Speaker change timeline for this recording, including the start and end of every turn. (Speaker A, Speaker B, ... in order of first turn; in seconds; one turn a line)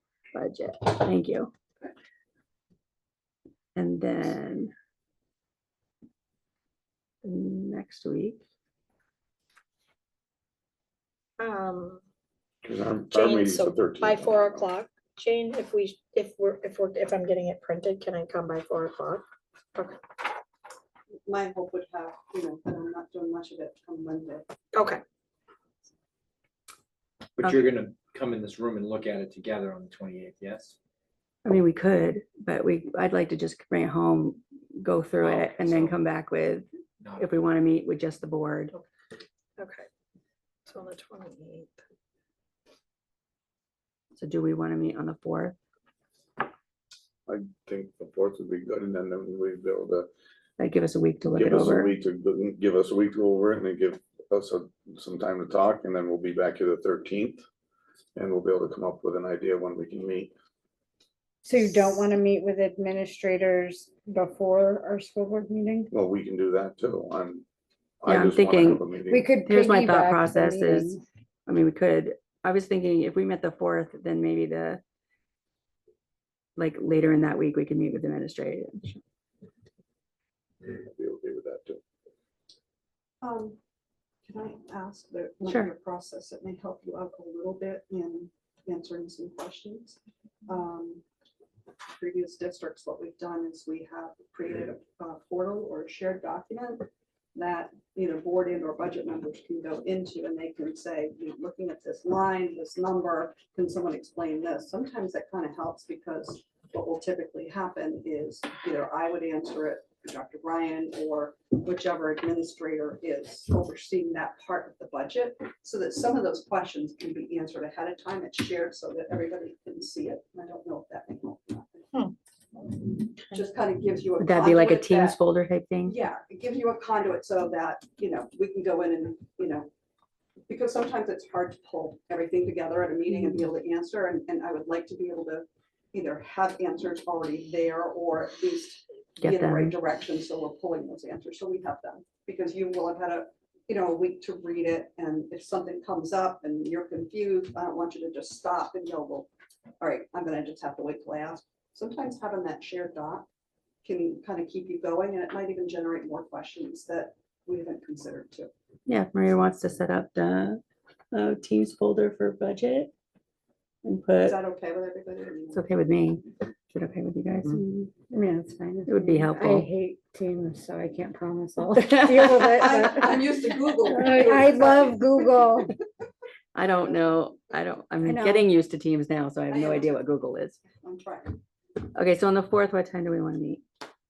Speaker A: 0.3-1.5
Speaker A: 3.8-4.7
Speaker A: 7.2-8.4
Speaker B: 11.4-12.0
Speaker C: 12.6-14.7
Speaker B: 13.1-20.0
Speaker D: 21.2-24.5
Speaker B: 24.7-25.0
Speaker E: 27.4-30.7
Speaker A: 31.4-36.6
Speaker E: 35.2-36.0
Speaker E: 37.0-37.3
Speaker A: 37.2-38.7
Speaker B: 39.6-39.9
Speaker B: 40.7-41.8
Speaker A: 44.1-45.5
Speaker C: 47.3-50.1
Speaker A: 50.6-51.9
Speaker C: 51.4-57.4
Speaker C: 58.1-60.3
Speaker F: 61.4-65.9
Speaker C: 65.9-67.4
Speaker C: 68.0-69.3
Speaker A: 68.0-68.8
Speaker F: 69.1-71.0
Speaker A: 69.4-74.8
Speaker A: 76.5-79.0
Speaker C: 80.6-81.8
Speaker D: 83.2-83.6
Speaker D: 84.2-91.0
Speaker A: 85.5-85.7
Speaker D: 92.0-121.9
Speaker D: 122.5-125.2
Speaker A: 124.2-126.0
Speaker D: 125.8-129.7
Speaker D: 130.5-149.3
Speaker A: 139.2-139.8
Speaker D: 149.8-153.2
Speaker D: 153.8-158.5
Speaker A: 158.8-160.6
Speaker A: 161.1-162.9
Speaker A: 163.8-164.4
Speaker D: 164.2-165.7
Speaker A: 165.5-167.6
Speaker F: 167.4-173.3
Speaker A: 168.8-169.7
Speaker A: 171.8-172.6
Speaker D: 172.3-175.7
Speaker F: 173.8-175.7
Speaker A: 176.5-180.6
Speaker F: 178.0-178.5
Speaker D: 179.5-180.1
Speaker D: 180.8-181.4
Speaker A: 181.9-183.6